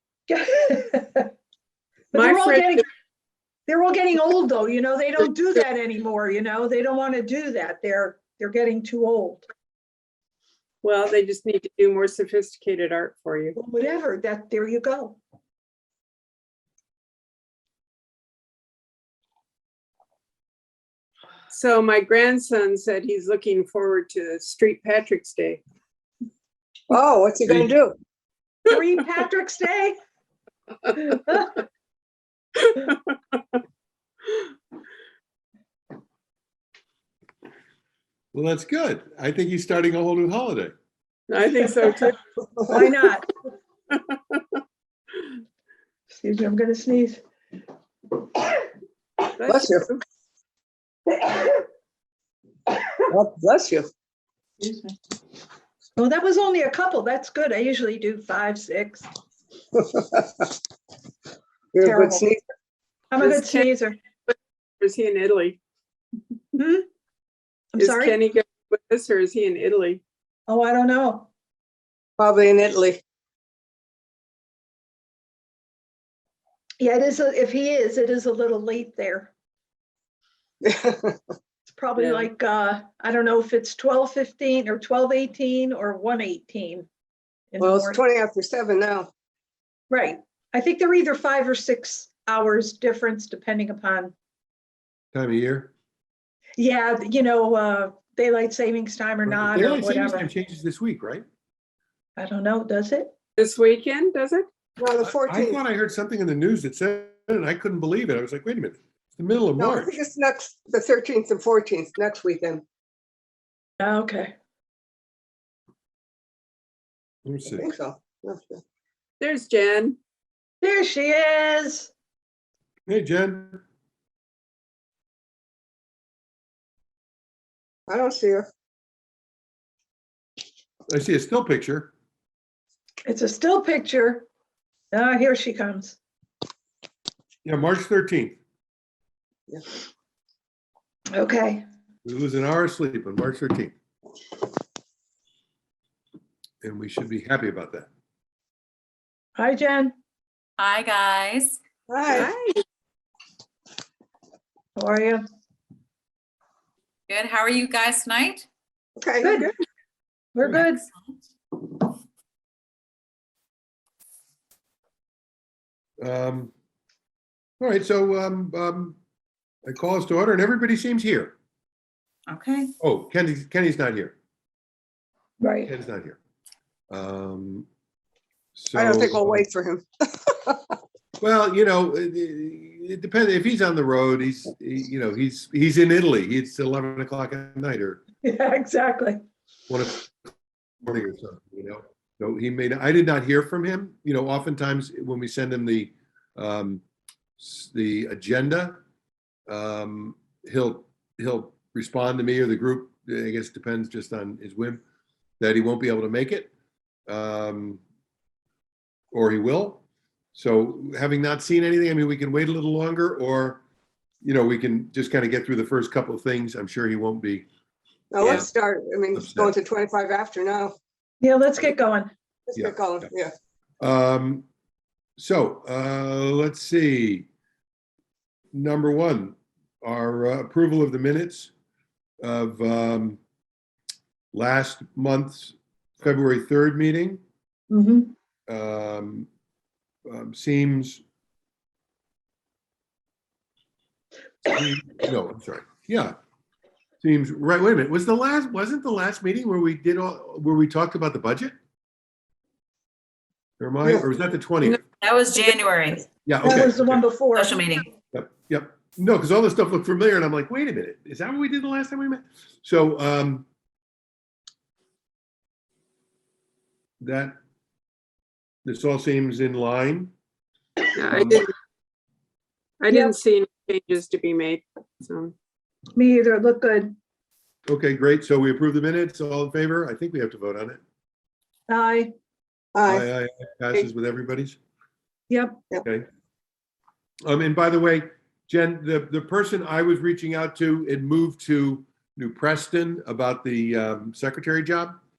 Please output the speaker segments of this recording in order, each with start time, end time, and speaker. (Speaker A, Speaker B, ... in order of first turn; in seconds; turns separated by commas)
Speaker A: 0.3-1.3, Speaker A: 2.1-2.8, Speaker B: 2.1-2.8, Speaker A: 3.7-9.4, Speaker B: 10.8-13.6, Speaker A: 13.5-15.2, Speaker B: 21.5-25.6, Speaker C: 26.9-27.9, Speaker A: 28.6-29.9, Speaker A: 31.1-31.5, Speaker B: 32.6-33.0, Speaker D: 38.3-40.7, Speaker B: 41.3-42.1, Speaker A: 42.6-43.3, Speaker B: 43.9-44.4, Speaker A: 46.1-47.2, Speaker B: 49.4-50.0, Speaker C: 49.5-49.9, Speaker C: 53.1-53.9, Speaker A: 56.0-59.1, Speaker C: 59.7-60.5, Speaker C: 61.7-62.4, Speaker A: 61.8-62.3, Speaker A: 63.1-64.0, Speaker B: 63.2-63.6, Speaker B: 64.3-65.6, Speaker A: 66.5-66.8, Speaker A: 67.7-68.2, Speaker B: 67.8-70.0, Speaker A: 70.5-71.3, Speaker C: 72.2-73.0, Speaker A: 76.8-79.3, Speaker C: 80.6-81.2, Speaker A: 81.7-86.9, Speaker C: 82.0-82.3, Speaker A: 87.5-88.0, Speaker C: 87.6-89.1, Speaker A: 89.9-94.1, Speaker D: 95.1-95.7, Speaker A: 96.6-100.2, Speaker D: 99.2-101.2, Speaker A: 102.2-103.1, Speaker B: 103.4-104.5, Speaker C: 104.8-105.6, Speaker D: 105.0-109.9, Speaker C: 109.6-112.6, Speaker A: 113.8-114.3, Speaker D: 117.2-117.7, Speaker C: 117.5-118.6, Speaker B: 119.2-120.0, Speaker A: 120.6-121.9, Speaker D: 122.9-123.6, Speaker C: 127.9-128.5, Speaker D: 130.9-131.9, Speaker A: 133.1-134.3, Speaker A: 134.9-136.0, Speaker D: 137.4-138.4, Speaker A: 141.1-141.7, Speaker D: 142.0-143.7, Speaker D: 146.6-147.9, Speaker A: 149.3-149.9, Speaker E: 150.6-151.6, Speaker C: 151.9-152.3, Speaker B: 152.1-152.6, Speaker A: 154.8-155.2, Speaker E: 157.1-158.5, Speaker C: 159.0-159.5, Speaker A: 159.2-159.5, Speaker A: 160.3-160.8, Speaker E: 160.4-161.1, Speaker D: 166.0-166.5, Speaker D: 167.6-169.0, Speaker D: 169.7-171.3, Speaker E: 172.3-172.7, Speaker D: 172.8-174.1, Speaker A: 175.4-175.7, Speaker D: 175.6-176.2, Speaker D: 176.9-177.7, Speaker D: 178.5-179.4, Speaker C: 178.7-180.7, Speaker D: 181.2-188.0, Speaker A: 188.2-189.2, Speaker D: 189.7-190.1, Speaker D: 190.8-196.8, Speaker D: 197.4-198.8, Speaker D: 199.5-204.8, Speaker D: 205.4-206.5, Speaker D: 207.1-207.8, Speaker D: 209.1-213.6, Speaker D: 214.2-217.4, Speaker C: 218.1-220.7, Speaker D: 218.2-218.5, Speaker D: 219.1-219.5, Speaker A: 221.2-222.1, Speaker C: 222.5-223.3, Speaker D: 222.6-223.1, Speaker D: 223.8-224.4, Speaker D: 225.2-227.3, Speaker D: 228.5-231.5, Speaker D: 232.2-233.2, Speaker D: 234.3-237.2, Speaker A: 237.7-238.1, Speaker D: 238.5-239.3, Speaker D: 240.1-241.0, Speaker D: 244.4-246.1, Speaker D: 247.0-251.5, Speaker D: 253.6-254.8, Speaker E: 254.9-256.1, Speaker D: 256.2-257.0, Speaker A: 256.4-257.6, Speaker E: 257.3-257.9, Speaker D: 258.1-263.4, Speaker D: 267.0-267.4, Speaker D: 268.6-270.1, Speaker B: 270.9-271.5, Speaker D: 271.1-271.4, Speaker B: 272.8-275.3, Speaker A: 272.9-273.1, Speaker A: 275.9-276.9, Speaker D: 277.7-280.8, Speaker A: 281.7-282.1, Speaker C: 282.7-283.1, Speaker D: 282.9-284.6, Speaker A: 285.3-285.6, Speaker D: 287.2-295.0